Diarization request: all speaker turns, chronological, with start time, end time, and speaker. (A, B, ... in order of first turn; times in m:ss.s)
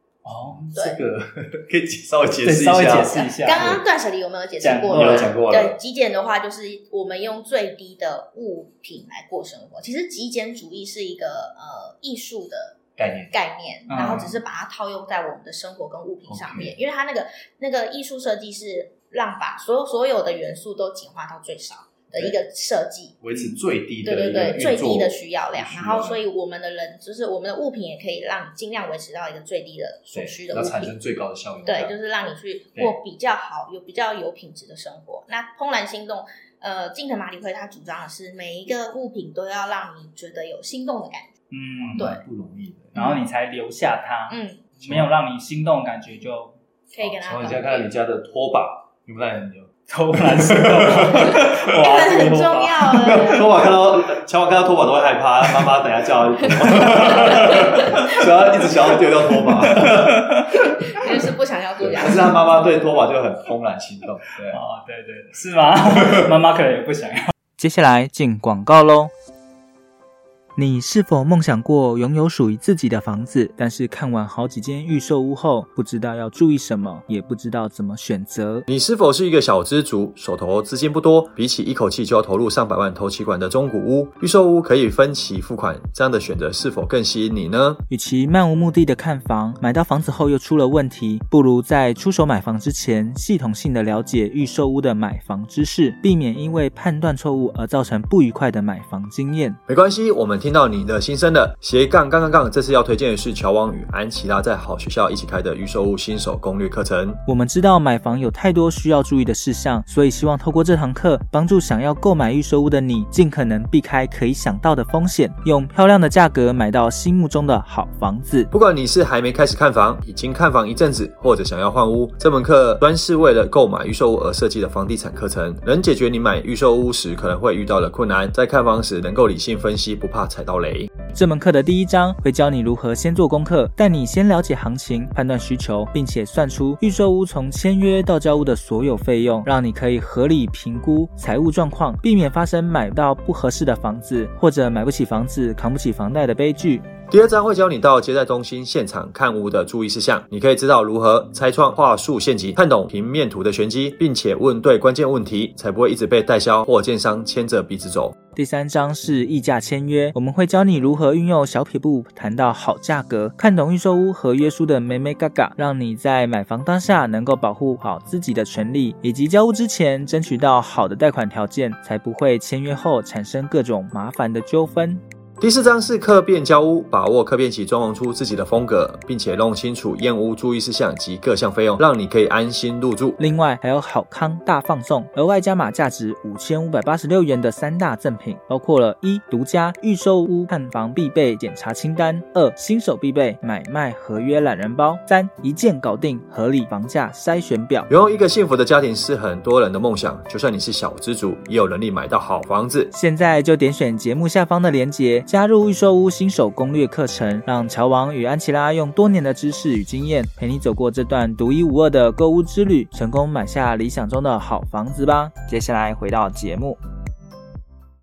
0:00.2-0:00.8 A
0:00.5-0:03.8 B
0:02.4-0:03.8 A
0:03.2-0:23.2 C
0:04.6-0:05.3 A
0:04.9-0:05.8 B
0:13.0-0:13.3 B
0:13.9-0:14.3 A
0:16.3-0:16.8 B
0:22.1-0:22.4 B
0:23.2-0:26.2 B
0:24.0-0:30.9 C
0:30.1-0:32.0 B
0:31.6-0:41.3 C
0:41.5-0:42.2 A
0:41.8-0:43.1 B
0:43.0-0:43.2 C
0:43.0-0:46.6 A
0:44.3-0:44.6 C
0:44.8-0:45.1 B
0:46.9-0:47.9 C
0:47.0-0:51.7 B
0:49.9-0:53.3 A
0:51.2-0:53.5 C
0:53.0-1:00.3 B
0:56.6-0:57.9 A
0:56.8-0:58.2 C
0:59.6-1:00.8 A
1:00.5-1:02.4 C
1:01.8-1:04.6 B
1:04.5-1:07.3 A
1:05.9-1:06.3 B
1:07.6-1:09.1 D
1:10.6-1:18.6 D
1:18.7-1:27.8 E
1:27.9-1:39.6 D
1:39.7-1:47.2 E
1:47.3-1:58.5 D
1:58.5-2:10.9 E
2:11.0-2:26.9 D
2:27.1-2:38.2 E
2:38.4-2:55.0 D
2:55.4-3:03.2 E
3:03.2-3:17.9 D
3:17.9-3:22.9 E
3:22.9-3:36.8 D